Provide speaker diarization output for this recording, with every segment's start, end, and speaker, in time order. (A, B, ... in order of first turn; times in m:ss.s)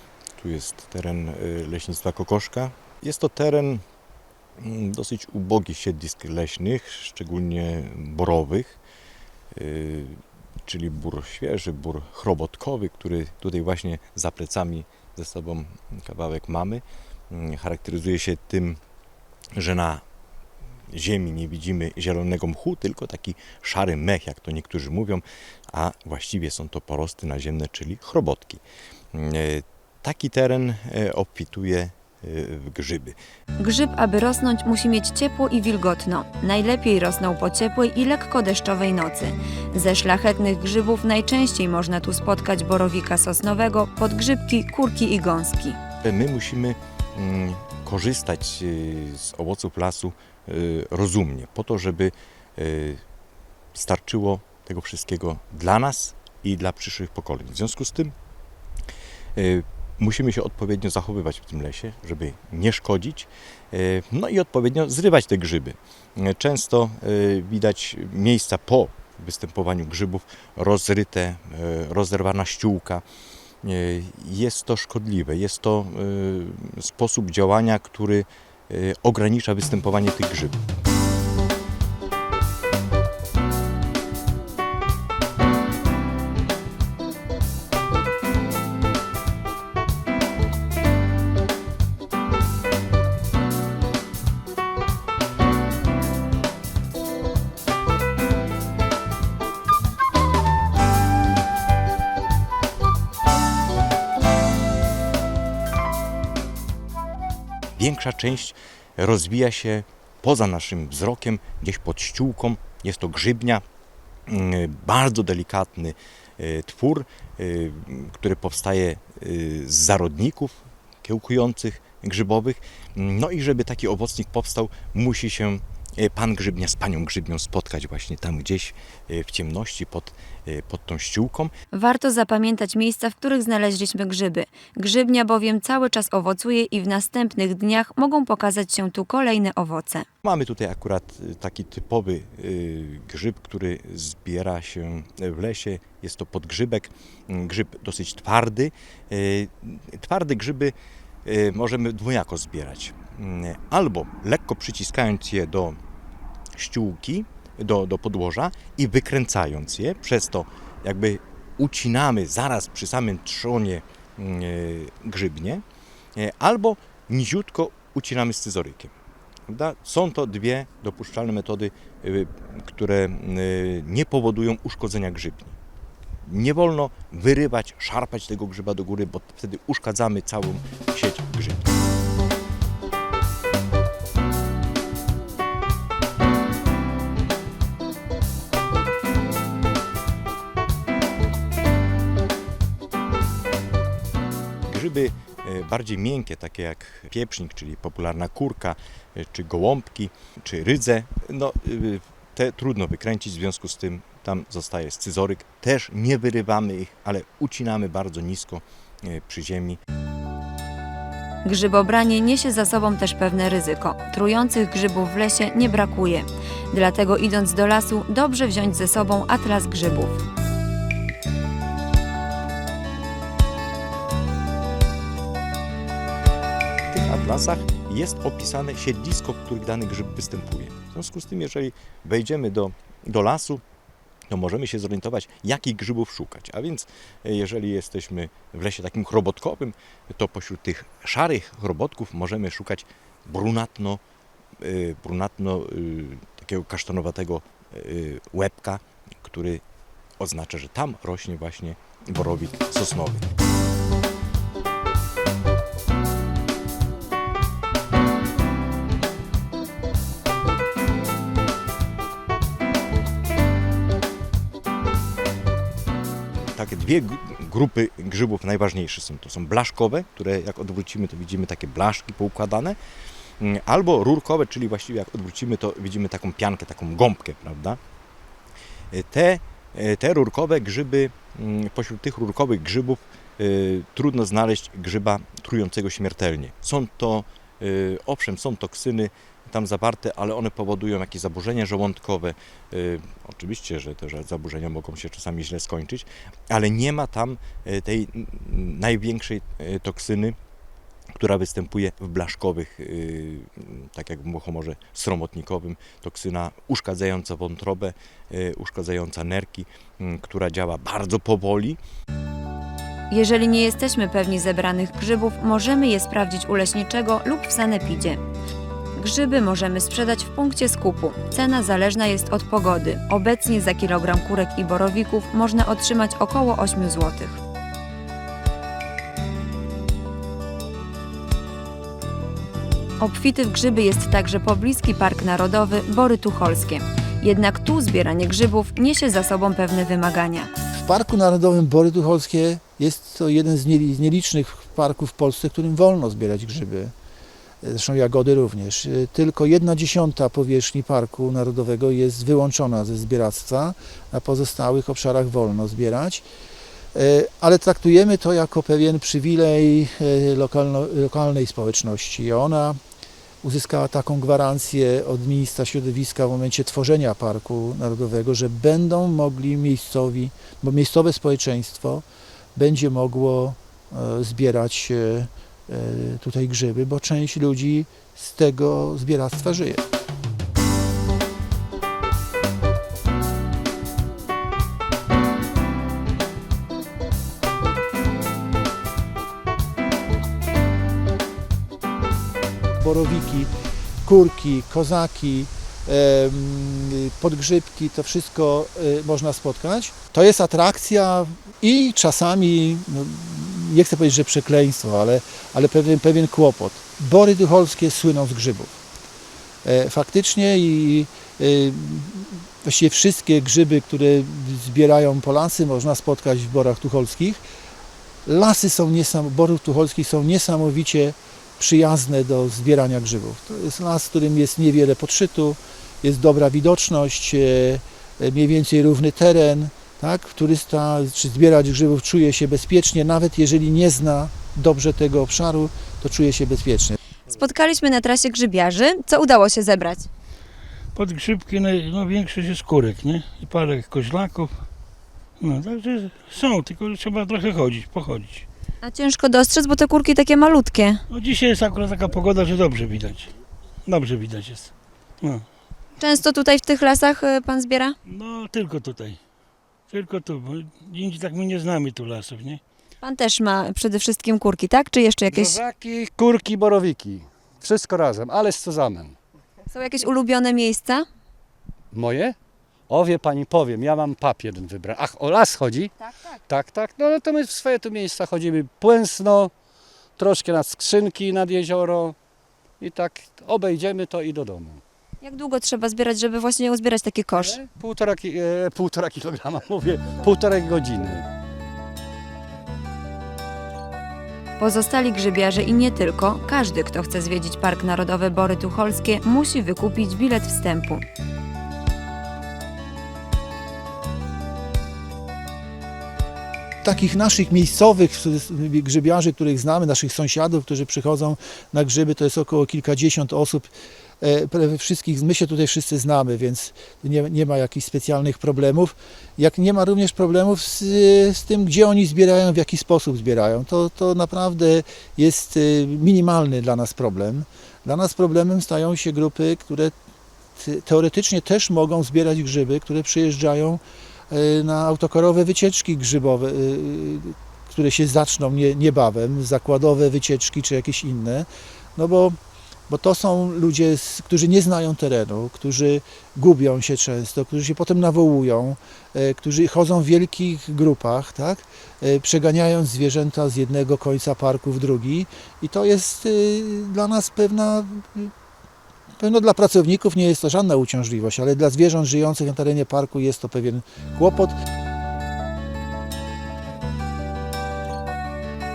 0:00.4-0:03.8 A
0:04.6-0:08.8 A
0:09.5-0:18.8 A
0:19.6-0:20.0 A
0:20.9-0:28.6 A
0:29.1-0:33.2 A
0:33.6-0:45.8 B
0:46.0-0:53.0 A
0:53.7-0:58.1 A
0:59.4-1:13.0 A
1:13.6-1:20.6 A
1:47.8-1:53.6 A
1:54.3-2:11.5 A
2:11.7-2:20.1 B
2:20.2-2:35.8 A
2:36.6-2:45.6 A
2:46.2-2:48.9 A
2:49.5-2:55.6 A
2:56.2-3:01.7 A
3:14.7-3:29.8 A
3:31.4-3:40.2 B
3:46.9-3:53.6 A
3:54.3-4:04.0 A
4:04.6-4:09.6 A
4:10.2-4:13.2 A
4:26.5-4:32.8 A
4:33.4-4:37.8 A
4:38.9-5:00.4 A
5:01.2-5:11.8 A
5:13.1-5:18.2 B
5:19.0-5:27.4 B
5:33.0-5:40.5 B
5:40.7-5:46.9 C
5:47.6-5:56.2 C
5:56.9-6:02.8 C
6:03.4-6:19.8 C
6:32.8-6:33.5 C
6:34.0-6:48.8 C
6:49.6-6:57.4 C
6:58.3-7:17.0 C
7:17.3-7:20.1 B
7:21.0-7:24.5 D
7:25.4-7:28.5 D
7:28.8-7:31.0 B
7:31.1-7:33.3 D
7:33.9-7:35.4 D
7:36.0-7:38.0 B
7:38.1-7:39.2 D
7:39.9-7:42.6 D
7:43.0-7:45.6 B
7:45.3-7:49.2 E
7:49.7-7:51.1 B
7:51.9-7:52.4 E
7:52.9-7:59.5 E
8:00.2-8:02.2 E
8:02.8-8:04.8 E
8:05.2-8:07.6 B
8:07.4-8:11.3 E
8:14.6-8:21.0 B
8:26.8-8:33.7 C
8:34.2-8:49.9 C
8:50.6-9:02.4 C
9:02.9-9:18.3 C
9:19.2-9:24.6 C